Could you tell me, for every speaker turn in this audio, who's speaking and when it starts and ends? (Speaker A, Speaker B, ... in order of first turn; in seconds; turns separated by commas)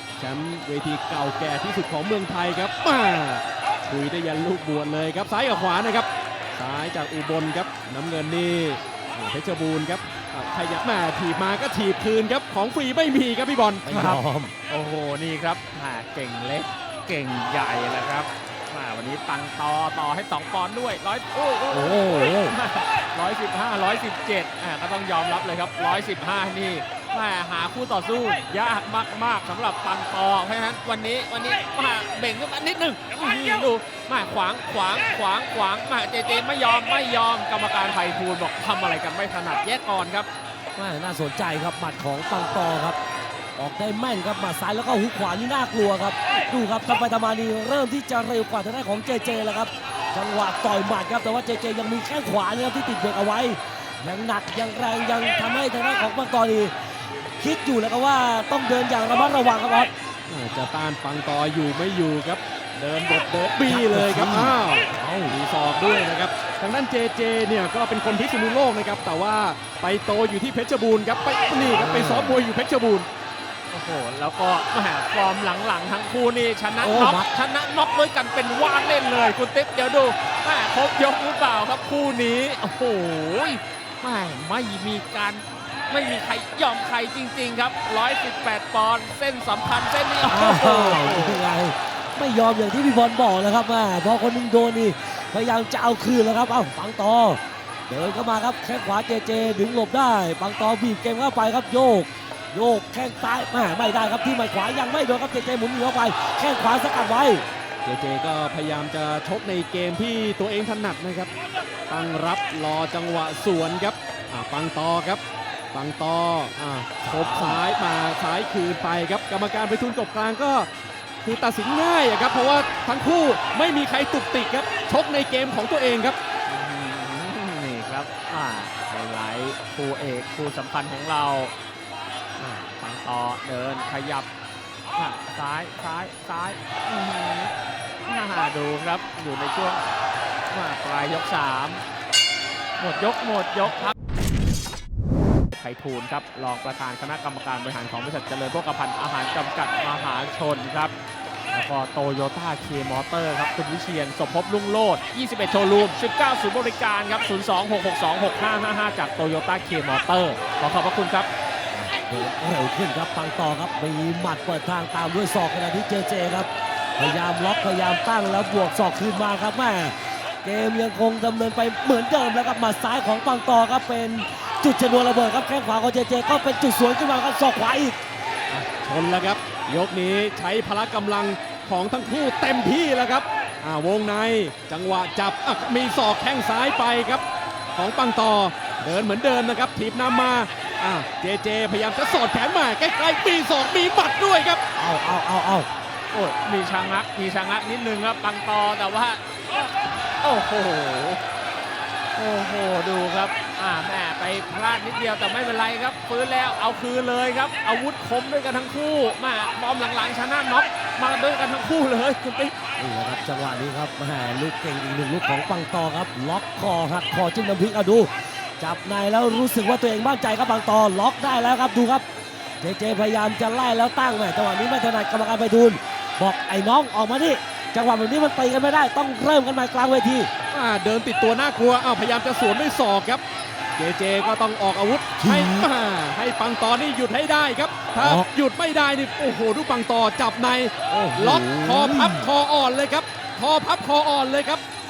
Speaker A: 0.2-13.9, Speaker B: 13.8-14.5, Speaker C: 13.9-40.3, Speaker B: 21.7-22.6, Speaker B: 40.8-43.0, Speaker B: 43.6-56.7, Speaker B: 57.4-59.9, Speaker A: 60.3-73.1, Speaker B: 63.6-65.3, Speaker B: 71.6-72.4, Speaker C: 73.7-91.4, Speaker B: 76.8-77.2, Speaker B: 90.3-107.4, Speaker A: 107.8-111.3, Speaker A: 111.9-115.2, Speaker A: 115.7-120.7, Speaker B: 117.1-117.6, Speaker A: 121.2-126.2, Speaker C: 126.5-131.5, Speaker C: 132.4-134.3, Speaker C: 134.9-137.5, Speaker C: 138.1-139.8, Speaker C: 140.5-141.8, Speaker C: 142.8-143.9, Speaker C: 145.5-150.9, Speaker C: 151.5-161.3, Speaker B: 161.7-178.0, Speaker A: 178.5-187.2, Speaker A: 187.8-194.6, Speaker B: 194.8-195.7, Speaker C: 196.1-201.2, Speaker C: 202.1-212.5, Speaker B: 212.8-222.0, Speaker B: 222.6-230.3, Speaker A: 230.5-233.2, Speaker A: 233.8-244.6, Speaker B: 235.2-235.7, Speaker B: 237.9-238.3, Speaker B: 240.9-242.3